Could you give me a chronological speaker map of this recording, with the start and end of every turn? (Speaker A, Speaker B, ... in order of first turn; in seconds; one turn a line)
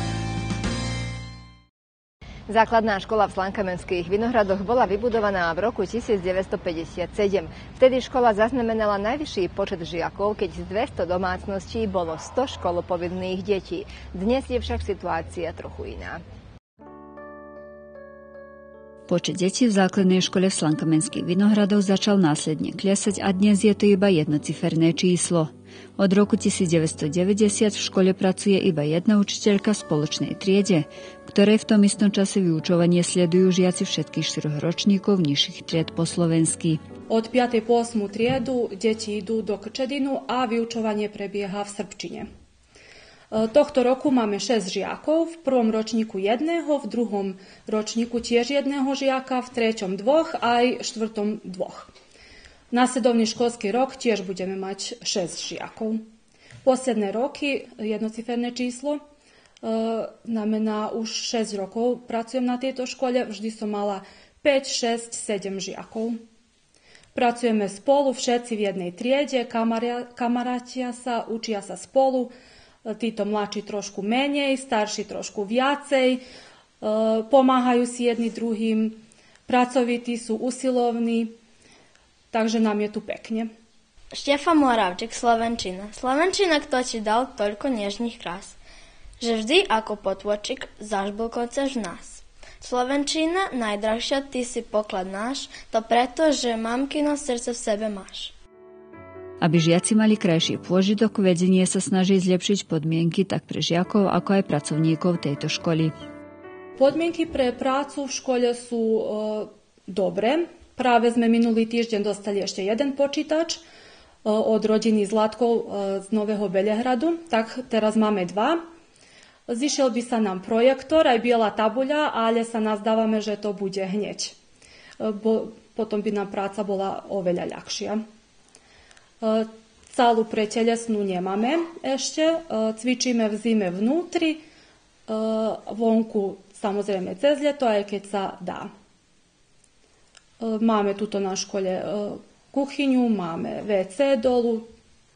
Speaker A: 2.5-16.2
Speaker B: 19.1-36.8
Speaker C: 37.1-42.3
Speaker C: 43.3-51.9
Speaker C: 52.7-56.1
Speaker C: 56.6-59.0
Speaker C: 59.6-66.2
Speaker C: 67.1-72.3
Speaker C: 72.8-76.2
Speaker C: 76.8-81.3
Speaker C: 82.3-83.5
Speaker D: 84.1-88.6
Speaker D: 89.2-98.3
Speaker B: 99.4-105.9
Speaker C: 106.8-113.6
Speaker C: 114.2-118.6
Speaker C: 119.5-124.3
Speaker C: 125.0-128.0
Speaker C: 129.2-134.4
Speaker C: 135.1-138.7
Speaker C: 140.4-144.7